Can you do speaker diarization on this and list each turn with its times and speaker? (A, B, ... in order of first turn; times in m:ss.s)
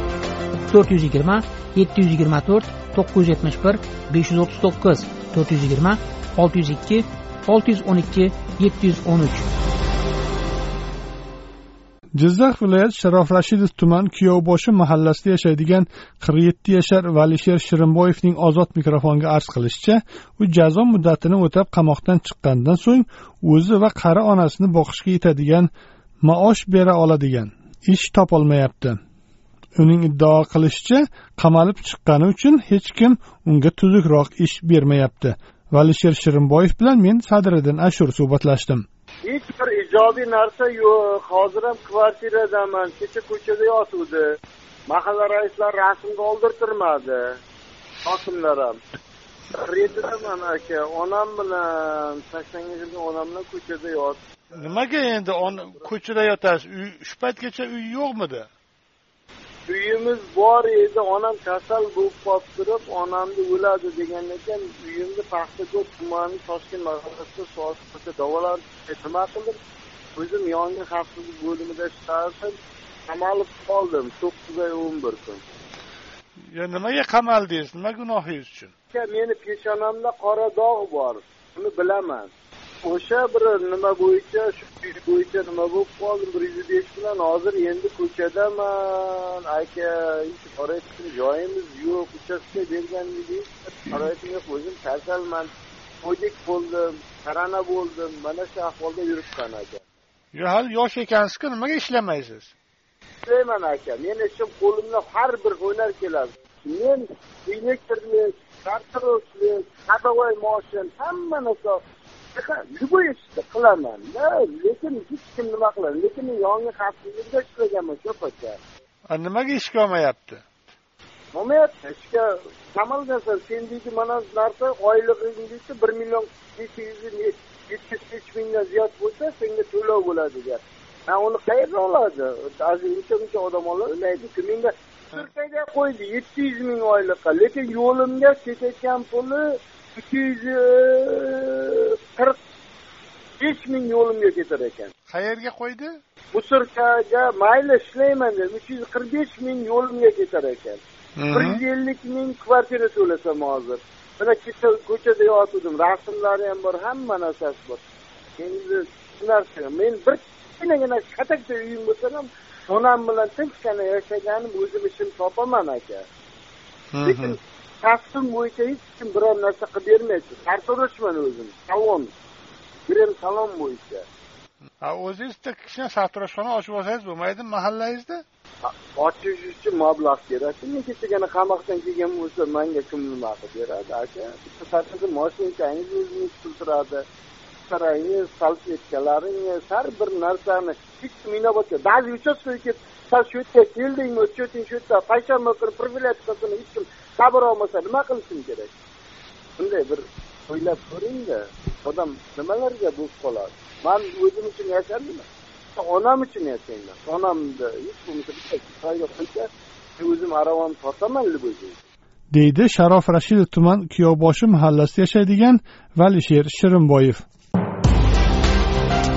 0:00.7-0:09.4 A
0:12.2-0:25.7 B
0:26.2-0:29.0 B
0:29.8-0:38.8 B
0:39.2-0:44.4 C
0:44.9-0:47.4 C
0:48.0-0:48.8 C
0:49.5-0:54.2 C
0:54.5-0:58.5 D
0:59.7-1:09.6 C
1:10.1-1:12.5 C
1:13.0-1:15.4 C
1:16.5-1:18.7 D
1:18.9-1:22.3 C
1:22.8-1:35.5 C
1:36.0-1:39.8 C
1:40.3-1:42.5 D
1:43.2-1:51.8 C
1:52.3-1:58.6 C
1:59.1-2:00.4 D
2:01.3-2:22.4 C
2:23.4-2:24.9 C
2:25.1-2:26.0 D
2:26.3-2:37.8 C
2:31.2-2:31.6 D
2:38.4-2:46.0 C
2:46.9-2:47.3 D
2:47.0-2:52.1 C
2:52.9-2:54.0 C
2:54.8-2:58.2 D
2:58.6-3:07.0 C
3:07.7-3:18.7 C
3:19.6-3:31.8 C
3:32.3-3:37.2 B